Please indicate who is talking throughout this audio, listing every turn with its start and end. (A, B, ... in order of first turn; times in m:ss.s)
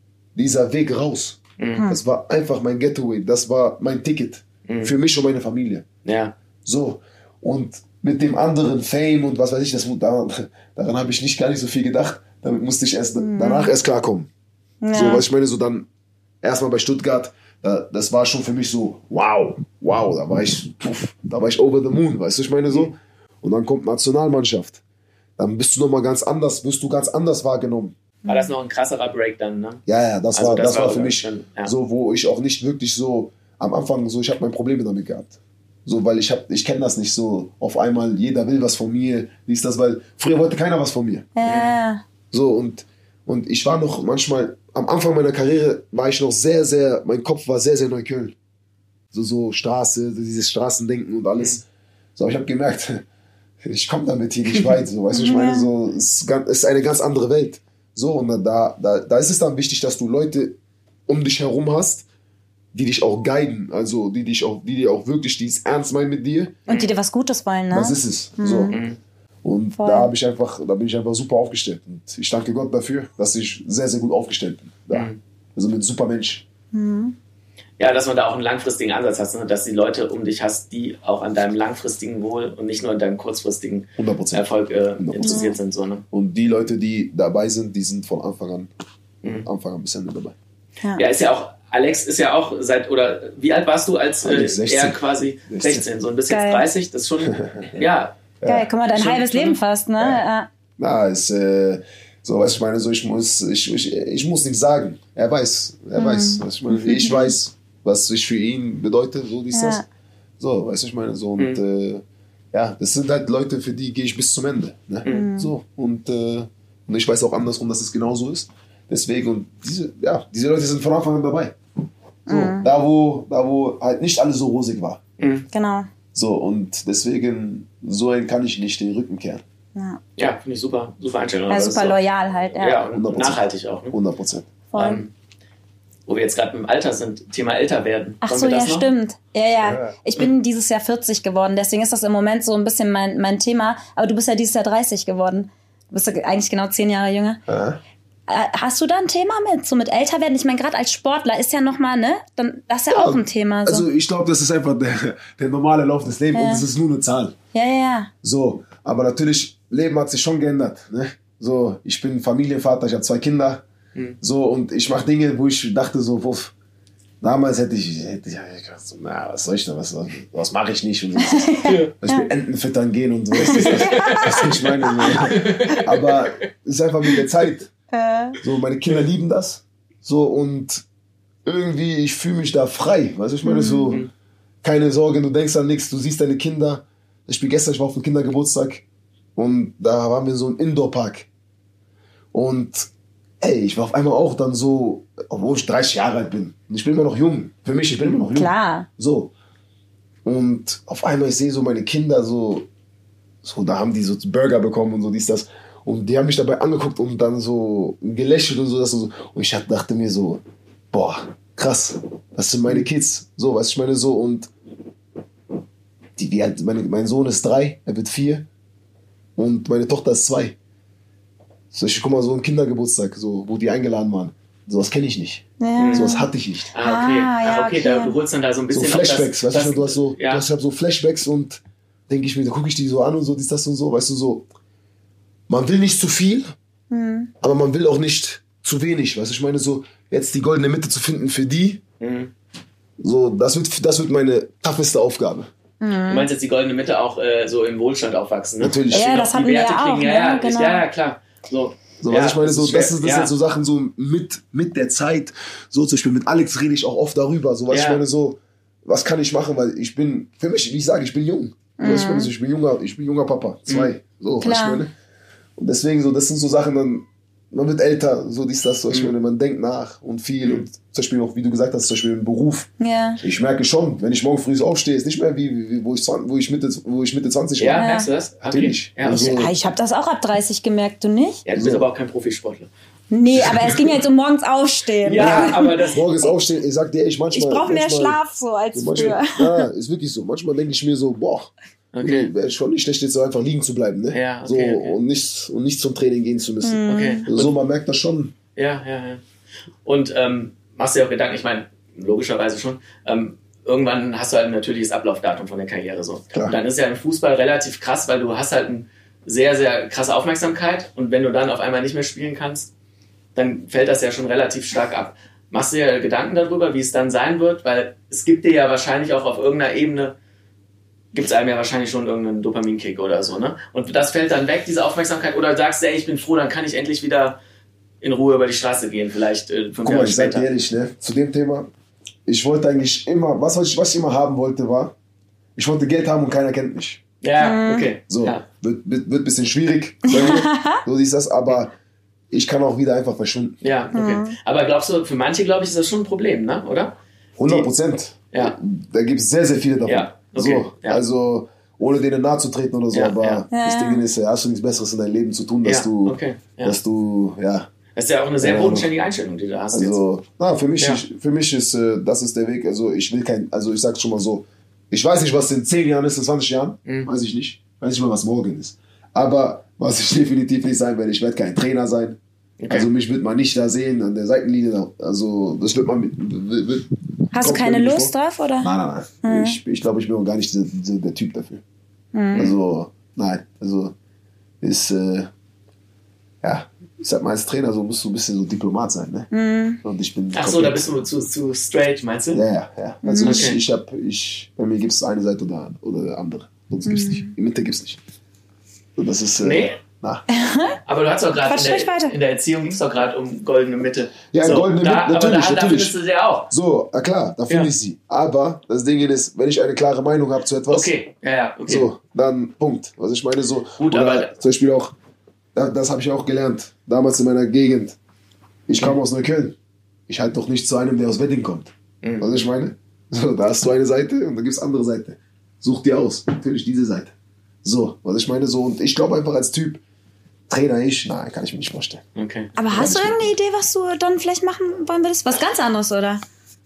0:00.3-0:05.8 A
0:01.6-0:01.9 B
0:04.7-0:04.9 B
0:06.0-0:06.3 B
0:06.6-0:14.3 A
0:13.2-0:13.7 C
0:14.8-0:15.2 C
0:14.9-0:15.9 A
0:16.4-0:24.8 A
0:25.4-0:28.0 A
0:28.2-0:28.5 C
0:28.3-0:29.8 B
0:29.8-0:41.3 A
0:30.3-0:31.7 B
0:41.3-0:42.0 C
0:41.4-0:41.7 B
0:42.3-0:48.3 A
0:49.1-0:51.6 A
0:52.2-0:53.0 A
0:53.6-1:02.0 A
0:55.1-0:55.7 C
1:02.7-1:06.6 A
1:06.7-1:08.8 C
1:07.7-1:08.8 A
1:08.7-1:09.0 B
1:09.4-1:16.4 A
1:09.8-1:10.1 C
1:14.9-1:15.2 B
1:16.7-1:17.2 C
1:17.8-1:26.0 B
1:24.0-1:24.4 A
1:25.0-1:25.5 A
1:25.2-1:25.6 C
1:26.1-1:28.7 A
1:29.4-1:30.3 A
1:31.0-1:38.2 B
1:34.2-1:35.9 A
1:36.3-1:36.7 C
1:37.3-1:37.8 A
1:38.4-1:38.7 A
1:38.4-1:40.5 C
1:38.9-1:39.6 B
1:40.8-1:49.8 A
1:46.0-1:47.3 C
1:49.5-1:49.8 C
1:50.4-2:01.6 A
1:55.1-1:55.5 C
2:02.3-2:02.7 C
2:02.3-2:05.0 A
2:05.2-2:05.4 B
2:05.5-2:05.9 C
2:06.1-2:09.4 A
2:09.7-2:10.0 C
2:10.2-2:12.0 B
2:11.5-2:12.8 C
2:12.6-2:14.0 B
2:12.9-2:14.5 A
2:14.7-2:15.0 C
2:14.7-2:15.1 B
2:16.1-2:18.9 B
2:18.2-2:27.4 C
2:19.6-2:20.0 A
2:27.5-2:27.8 A
2:28.3-2:33.8 C
2:32.9-2:37.4 A
2:36.3-2:36.6 C
2:37.5-2:38.1 C
2:38.2-2:43.6 A
2:44.2-2:46.5 A
2:47.2-2:57.7 A
2:51.2-2:52.3 C
2:51.6-2:51.9 B
2:53.4-2:56.3 B
2:53.5-2:55.2 C
2:57.9-2:58.4 C
2:58.4-3:00.8 A
3:01.4-3:04.1 A
3:03.4-3:04.0 C
3:04.6-3:08.8 A
3:09.4-3:11.3 A
3:12.3-3:12.9 A
3:13.4-3:19.3 A
3:18.3-3:18.9 C
3:20.2-3:22.7 A
3:23.4-3:30.4 A
3:30.9-3:34.5 A
3:36.2-3:38.5 A
3:39.4-3:40.6 A
3:41.7-3:46.7 A
3:45.6-3:46.3 C
3:45.8-3:46.2 B
3:46.7-3:50.4 B
3:46.8-3:48.1 C
3:48.7-3:54.5 A
3:55.5-3:56.5 A
3:56.9-3:57.3 C
3:57.4-4:01.8 A
4:02.0-4:02.3 B
4:03.0-4:05.5 A
4:05.8-4:06.3 C
4:06.1-4:13.3 B
4:08.6-4:09.1 A
4:08.9-4:10.8 C
4:12.0-4:24.9 A
4:17.7-4:18.0 B
4:21.8-4:22.3 C
4:24.4-4:24.8 C
4:25.6-4:37.9 A
4:32.8-4:33.2 C
4:37.6-4:39.5 B
4:37.8-4:38.1 C
4:38.4-4:39.5 A
4:39.2-4:41.4 C
4:41.4-4:42.7 B
4:41.5-4:41.8 A
4:43.1-4:45.9 C
4:43.3-4:43.9 A
4:45.0-4:46.4 B
4:45.0-4:48.2 A
4:47.3-4:49.7 C
4:48.7-4:58.3 A
4:51.9-4:52.3 B
4:54.1-4:55.0 B
4:56.6-4:57.3 C
4:56.9-4:57.5 B
4:58.6-4:59.2 B
4:59.8-5:12.7 B
5:06.3-5:06.6 A
5:13.3-5:20.1 B
5:21.1-5:27.4 B
5:28.0-5:30.4 B
5:29.8-5:31.7 A
5:32.2-5:34.9 A
5:35.6-5:37.0 A
5:37.2-5:38.4 B
5:37.4-5:37.9 C
5:38.1-5:41.7 A
5:40.1-5:40.8 C
5:42.3-5:43.6 A
5:43.6-5:47.7 B
5:43.9-5:44.3 C
5:47.4-5:57.7 A
5:49.8-5:51.0 B
5:52.9-5:53.4 B
5:53.5-5:54.0 C
5:55.6-5:56.7 B
5:57.9-6:00.0 B
5:58.4-5:58.9 A
5:59.7-6:12.2 A
6:12.6-6:12.9 B
6:12.7-6:21.6 A
6:17.3-6:19.6 C
6:22.1-6:22.5 C
6:22.3-6:23.9 A
6:24.6-6:25.3 A
6:26.4-6:29.3 A
6:29.3-6:29.8 C
6:29.8-6:30.8 A
6:30.3-6:32.4 B
6:32.3-6:38.0 A
6:33.0-6:33.5 C
6:33.2-6:33.6 B
6:36.8-6:37.3 C
6:39.0-6:40.2 A
6:39.4-6:39.7 B
6:40.3-6:40.8 C
6:40.9-6:46.5 B
6:41.4-6:42.1 C
6:44.3-6:45.9 A
6:46.5-6:50.9 A
6:50.7-6:51.9 B
6:51.7-6:54.9 A
6:53.8-6:54.3 B
6:55.5-6:58.0 A
6:58.7-6:59.6 A
7:00.1-7:07.1 A
7:02.0-7:02.3 B
7:07.6-7:09.8 A
7:10.5-7:12.0 A
7:12.1-7:12.5 B
7:12.6-7:16.2 C
7:12.7-7:13.3 A